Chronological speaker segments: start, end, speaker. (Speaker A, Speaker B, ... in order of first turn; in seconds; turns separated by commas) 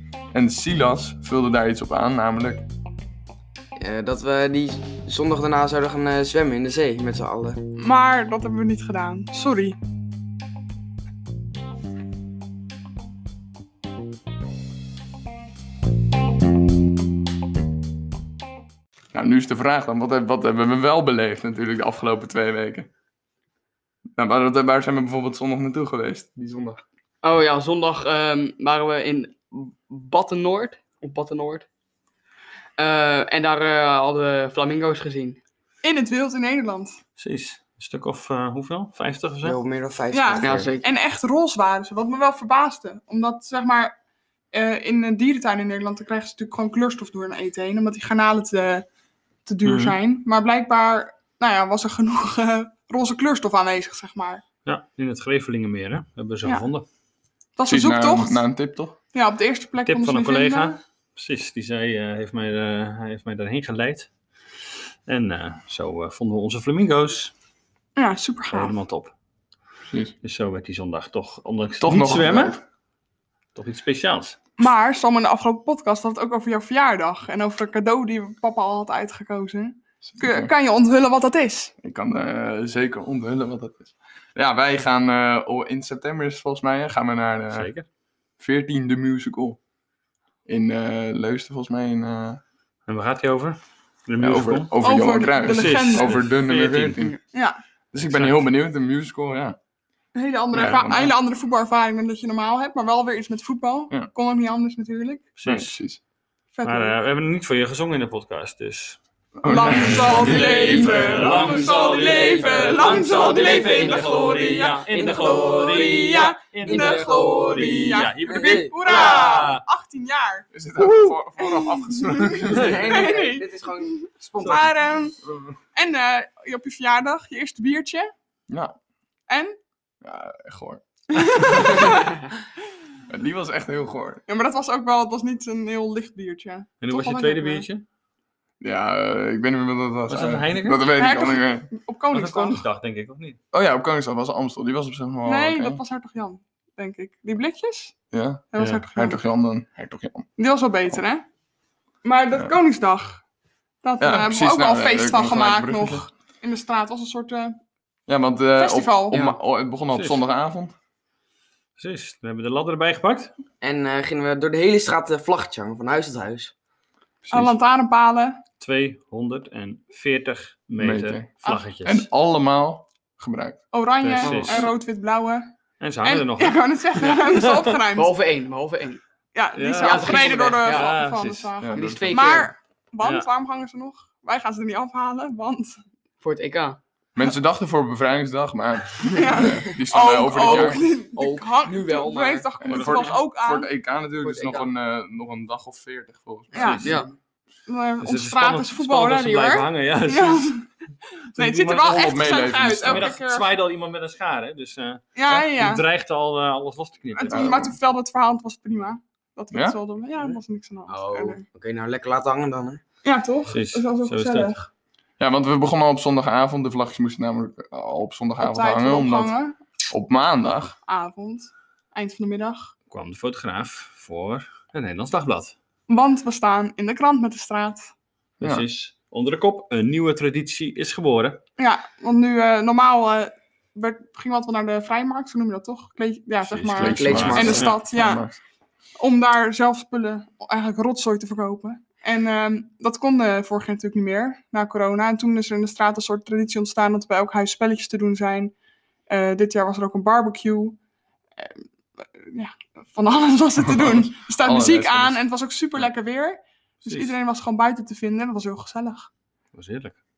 Speaker A: 0.3-2.6, Speaker B: 3.8-7.6, Speaker C: 7.8-9.8, Speaker A: 19.1-22.9, Speaker A: 24.2-26.8, Speaker D: 27.2-31.7, Speaker D: 32.8-35.4, Speaker C: 35.8-37.0, Speaker E: 37.2-39.6, Speaker B: 39.4-40.7, Speaker C: 40.1-44.0, Speaker D: 40.4-40.9, Speaker C: 44.5-48.9, Speaker C: 49.5-54.4, Speaker E: 49.6-50.0, Speaker E: 54.6-56.9, Speaker C: 57.6-58.4, Speaker A: 57.7-59.0, Speaker C: 59.1-60.8, Speaker E: 59.9-64.1, Speaker E: 65.1-67.3, Speaker C: 68.0-68.8, Speaker E: 68.5-69.1, Speaker A: 69.9-70.1, Speaker E: 70.2-72.6, Speaker A: 71.8-72.6, Speaker E: 73.5-74.4, Speaker C: 74.6-81.7, Speaker A: 80.1-80.5, Speaker A: 81.8-87.7, Speaker E: 87.5-87.9, Speaker A: 88.4-89.6, Speaker A: 90.5-92.4, Speaker E: 92.9-94.7, Speaker A: 94.2-97.2, Speaker C: 94.8-96.2, Speaker E: 95.4-97.1, Speaker C: 97.2-97.6, Speaker A: 97.9-99.6, Speaker E: 98.0-98.5, Speaker C: 100.2-105.3, Speaker A: 100.5-101.1, Speaker E: 105.4-105.7, Speaker A: 105.4-106.0, Speaker C: 106.5-107.0, Speaker E: 106.6-109.0, Speaker A: 109.4-111.5, Speaker C: 109.5-120.5, Speaker E: 109.5-119.6, Speaker B: 111.6-113.2, Speaker D: 113.0-114.1, Speaker B: 114.9-119.4, Speaker D: 116.7-117.8, Speaker D: 118.8-119.2, Speaker A: 120.5-122.8, Speaker C: 121.0-125.2, Speaker E: 122.5-122.9, Speaker B: 122.5-124.7, Speaker E: 124.4-124.7, Speaker A: 125.2-125.6, Speaker C: 125.8-128.1, Speaker A: 128.5-128.8, Speaker C: 129.3-129.6, Speaker A: 130.0-131.9, Speaker C: 131.1-132.2, Speaker A: 133.1-134.2, Speaker C: 134.3-137.7, Speaker E: 136.8-137.8, Speaker A: 138.6-141.7, Speaker E: 140.1-140.8, Speaker C: 140.9-142.6, Speaker E: 142.1-143.4, Speaker A: 143.5-145.8, Speaker C: 145.2-148.0, Speaker A: 148.1-150.3, Speaker C: 148.5-149.2, Speaker C: 150.4-151.2, Speaker C: 152.0-153.2, Speaker C: 153.8-157.6, Speaker A: 154.0-156.0, Speaker A: 158.1-160.7, Speaker C: 158.6-159.2, Speaker D: 159.1-159.4, Speaker E: 159.9-160.2, Speaker E: 161.8-163.3, Speaker B: 163.6-166.5, Speaker A: 167.3-167.6, Speaker C: 167.3-168.4, Speaker E: 168.6-172.1, Speaker A: 170.8-173.7, Speaker C: 171.4-171.7, Speaker C: 173.7-175.5, Speaker E: 174.0-174.7, Speaker D: 174.2-174.7, Speaker E: 175.8-177.8, Speaker C: 176.0-178.2, Speaker D: 177.9-179.0, Speaker C: 179.3-185.8, Speaker E: 179.6-182.0, Speaker D: 179.7-181.0, Speaker A: 181.6-182.1, Speaker D: 181.7-182.5, Speaker D: 186.2-186.8, Speaker A: 187.2-190.8, Speaker C: 189.0-193.7, Speaker D: 190.4-192.5, Speaker A: 192.6-197.0, Speaker E: 192.7-193.2, Speaker D: 194.2-194.7, Speaker C: 196.5-197.0, Speaker E: 196.5-196.9, Speaker D: 196.8-197.1, Speaker C: 197.7-200.7, Speaker E: 198.0-200.6, Speaker C: 201.3-203.5, Speaker E: 201.3-207.7, Speaker A: 201.7-203.1, Speaker C: 205.2-205.8, Speaker C: 207.2-211.4, Speaker A: 207.3-207.8, Speaker B: 210.9-212.8, Speaker C: 213.0-214.7, Speaker E: 213.5-214.5, Speaker A: 215.2-219.4, Speaker C: 218.4-219.6, Speaker A: 219.9-220.8, Speaker C: 220.9-222.7, Speaker E: 222.9-225.6, Speaker C: 225.9-227.9, Speaker E: 228.4-231.4, Speaker C: 231.6-238.2, Speaker E: 236.5-237.8, Speaker A: 236.6-238.3, Speaker B: 236.8-237.7, Speaker C: 239.0-248.5, Speaker C: 249.1-250.8, Speaker C: 251.4-259.1, Speaker A: 253.6-255.2, Speaker E: 256.9-257.1, Speaker E: 259.5-260.0